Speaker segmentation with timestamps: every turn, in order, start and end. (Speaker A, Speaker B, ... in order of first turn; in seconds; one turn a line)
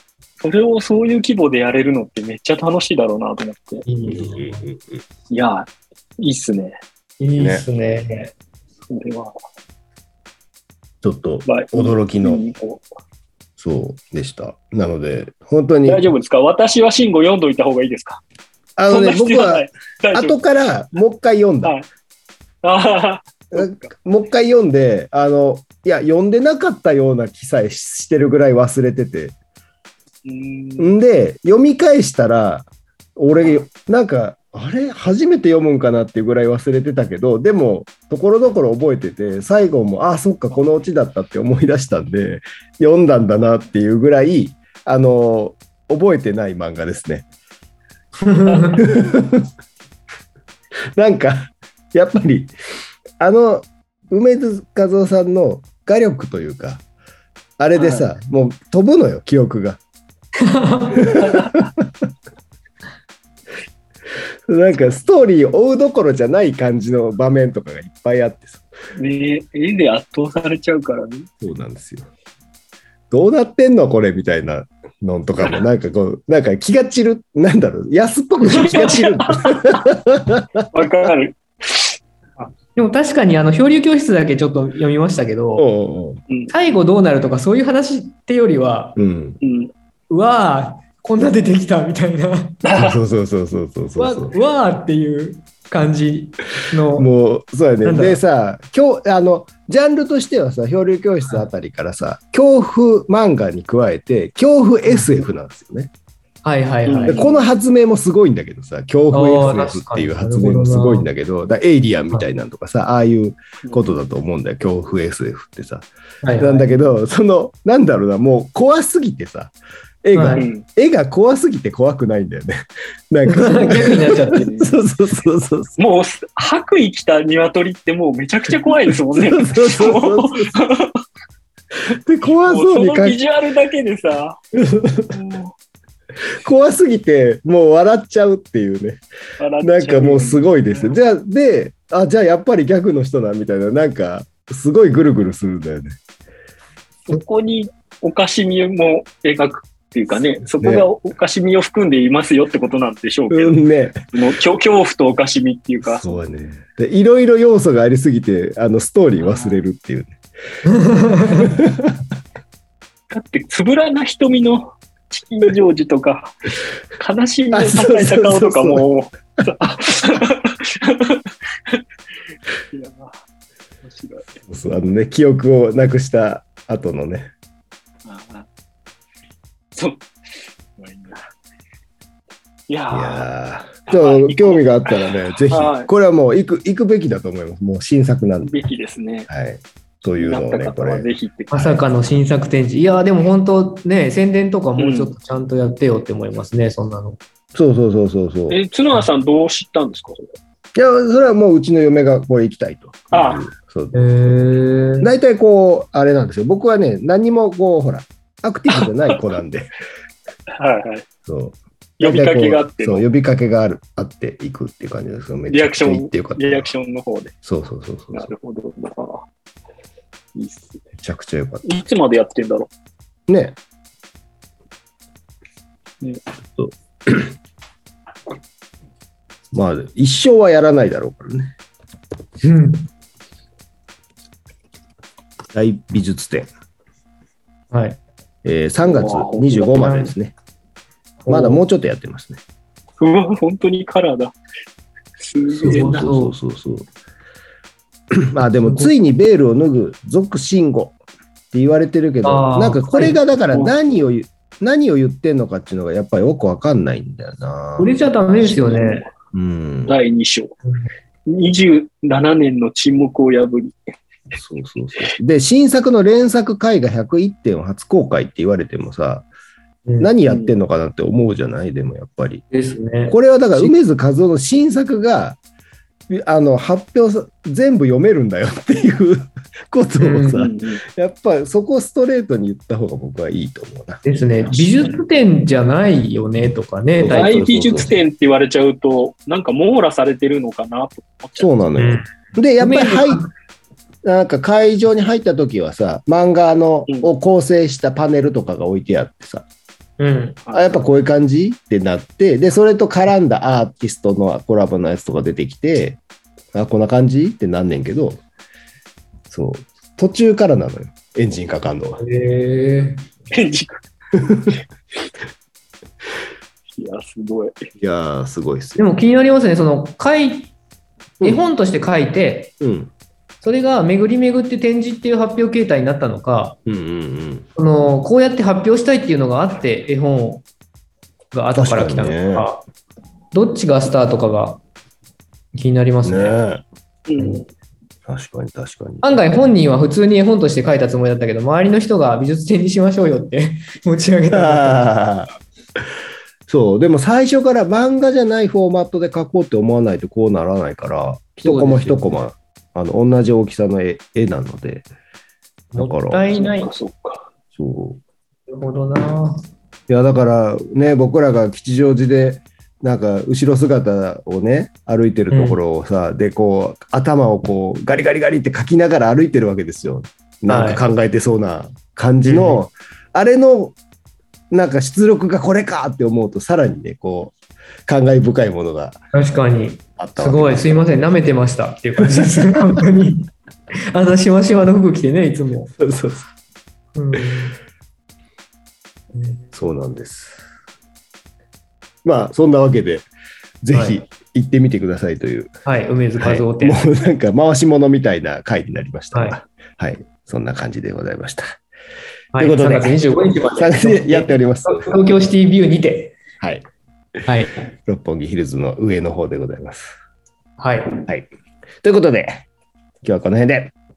Speaker A: 0.4-3.9
Speaker B: 3.9-4.7
Speaker C: 4.0-5.0
Speaker A: 5.3-5.7
Speaker A: 6.2-6.8
Speaker B: 7.2-8.3
Speaker C: 7.4-7.7
Speaker A: 8.9-9.3
Speaker C: 11.0-12.4
Speaker A: 11.4-12.8
Speaker C: 13.6-16.1
Speaker A: 15.9-18.2
Speaker C: 18.8-21.7
Speaker A: 18.9-20.4
Speaker A: 22.6-23.9
Speaker C: 23.5-29.4
Speaker A: 30.2-30.9
Speaker C: 30.8-47.2
Speaker B: 48.2-48.8
Speaker A: 48.5-48.8
Speaker C: 48.8-49.5
Speaker C: 51.0-52.5
Speaker C: 53.2-56.8
Speaker C: 57.6-59.8
Speaker A: 57.8-58.1
Speaker B: 60.4-61.0
Speaker C: 61.0-61.9
Speaker A: 61.2-61.5
Speaker C: 64.5-68.6
Speaker A: 69.0-71.3
Speaker C: 71.4-72.1
Speaker C: 73.1-80.7
Speaker A: 78.6-79.8
Speaker A: 80.7-82.0
Speaker B: 82.4-85.7
Speaker C: 85.6-86.2
Speaker B: 86.5-89.0
Speaker C: 89.0-89.4
Speaker A: 89.4-89.7
Speaker B: 90.1-92.6
Speaker A: 92.7-93.0
Speaker C: 92.7-94.3
Speaker B: 94.0-97.1
Speaker C: 96.9-105.9
Speaker B: 97.8-98.2
Speaker B: 104.8-105.2
Speaker B: 106.4-107.2
Speaker A: 106.9-107.4
Speaker C: 107.1-115.9
Speaker B: 109.1-111.1
Speaker A: 113.6-113.9
Speaker B: 116.2-116.9
Speaker C: 116.4-125.8
Speaker B: 120.1-120.4
Speaker A: 120.3-120.6
Speaker B: 123.3-124.7
Speaker A: 125.8-131.0
Speaker C: 128.6-130.5
Speaker C: 131.9-133.2
Speaker A: 132.4-134.4
Speaker C: 134.5-135.2
Speaker A: 135.1-135.5
Speaker C: 136.3-139.0
Speaker A: 139.4-141.0
Speaker C: 139.6-146.0
Speaker A: 147.1-153.6
Speaker C: 150.6-150.9
Speaker C: 153.3-154.0
Speaker A: 154.1-156.2
Speaker C: 155.8-160.2
Speaker A: 159.2-159.6
Speaker B: 160.6-161.6
Speaker C: 161.4-162.0
Speaker A: 163.1-171.8
Speaker C: 167.5-168.8
Speaker A: 172.7-173.2
Speaker A: 173.8-174.3
Speaker C: 174.5-177.3
Speaker A: 178.0-178.4
Speaker A: 179.7-180.1
Speaker A: 180.8-181.2
Speaker A: 182.7-183.3
Speaker C: 182.9-188.5
Speaker A: 183.9-185.9
Speaker A: 188.4-189.3
Speaker C: 189.3-191.1
Speaker A: 190.2-191.9
Speaker B: 191.5-197.2
Speaker A: 194.8-195.1
Speaker C: 197.5-198.6
Speaker A: 198.5-200.3
Speaker C: 200.7-204.4
Speaker A: 203.1-203.5
Speaker B: 203.9-205.1
Speaker C: 205.0-209.7
Speaker A: 208.7-209.2
Speaker A: 210.6-211.1
Speaker C: 211.2-216.7
Speaker A: 212.0-213.0
Speaker A: 215.5-217.3
Speaker C: 217.4-218.3
Speaker A: 218.1-219.2
Speaker A: 220.3-220.8
Speaker C: 221.0-221.6
Speaker A: 221.6-222.7
Speaker C: 223.3-223.6
Speaker C: 226.6-227.3
Speaker C: 229.5-231.5
Speaker B: 232.4-232.9
Speaker C: 235.5-236.5
Speaker B: 237.7-238.0
Speaker C: 238.4-240.3
Speaker A: 238.8-239.8
Speaker B: 239.7-240.1
Speaker B: 241.2-241.6
Speaker C: 241.3-242.4
Speaker A: 243.0-244.3
Speaker A: 245.2-246.1
Speaker C: 245.5-246.8
Speaker B: 245.7-246.3
Speaker C: 248.1-251.0
Speaker B: 248.6-248.9
Speaker C: 251.5-258.1
Speaker B: 252.2-253.2
Speaker B: 257.8-259.1
Speaker A: 258.4-259.1
Speaker C: 259.3-259.9
Speaker A: 259.9-260.5
Speaker A: 261.3-263.8
Speaker C: 264.4-269.3
Speaker C: 270.0-272.4
Speaker A: 270.2-270.5
Speaker B: 272.5-273.7
Speaker C: 273.1-275.4
Speaker C: 276.1-284.9
Speaker B: 280.0-280.4
Speaker A: 280.4-280.8
Speaker B: 284.0-287.9
Speaker C: 287.0-287.9
Speaker A: 287.1-291.5
Speaker C: 291.4-293.2
Speaker B: 291.8-292.0
Speaker B: 292.6-293.3
Speaker C: 294.0-299.4
Speaker B: 300.0-300.4
Speaker C: 300.5-306.0
Speaker C: 306.5-308.2
Speaker C: 309.3-312.0
Speaker B: 312.0-313.0
Speaker A: 313.3-313.8
Speaker C: 314.2-314.6
Speaker A: 316.7-317.7
Speaker C: 317.8-318.8
Speaker B: 318.8-320.5
Speaker C: 321.2-321.5
Speaker B: 321.2-322.5
Speaker C: 322.6-322.9
Speaker B: 323.4-326.6
Speaker C: 326.6-327.4
Speaker B: 327.6-330.4
Speaker B: 331.3-332.6
Speaker C: 331.5-332.5
Speaker B: 333.3-334.6
Speaker B: 335.5-336.4
Speaker C: 336.0-336.6
Speaker A: 337.1-337.4
Speaker C: 338.1-339.1
Speaker B: 339.0-344.8
Speaker C: 344.3-345.3
Speaker C: 346.5-354.9
Speaker B: 351.4-352.2
Speaker B: 355.7-356.7
Speaker C: 355.8-356.3
Speaker A: 356.3-357.3
Speaker C: 357.5-358.0
Speaker B: 358.5-359.4
Speaker C: 359.9-373.8
Speaker B: 365.3-365.6
Speaker B: 370.4-370.8
Speaker B: 372.2-372.6
Speaker C: 374.5-377.3
Speaker C: 377.9-379.0
Speaker B: 379.1-383.3
Speaker C: 380.0-380.9
Speaker C: 382.0-382.6
Speaker B: 383.9-385.7
Speaker C: 385.8-386.3
Speaker B: 386.9-387.6
Speaker B: 389.1-389.5
Speaker C: 389.5-390.4
Speaker C: 392.0-393.1
Speaker C: 393.6-395.5
Speaker B: 393.7-394.0
Speaker B: 395.6-396.8
Speaker C: 396.2-401.6
Speaker B: 399.1-399.4
Speaker B: 402.3-406.2
Speaker C: 402.4-404.9
Speaker B: 407.2-407.6
Speaker C: 407.7-409.9
Speaker B: 410.6-411.0
Speaker C: 411.8-412.5
Speaker C: 413.0-413.7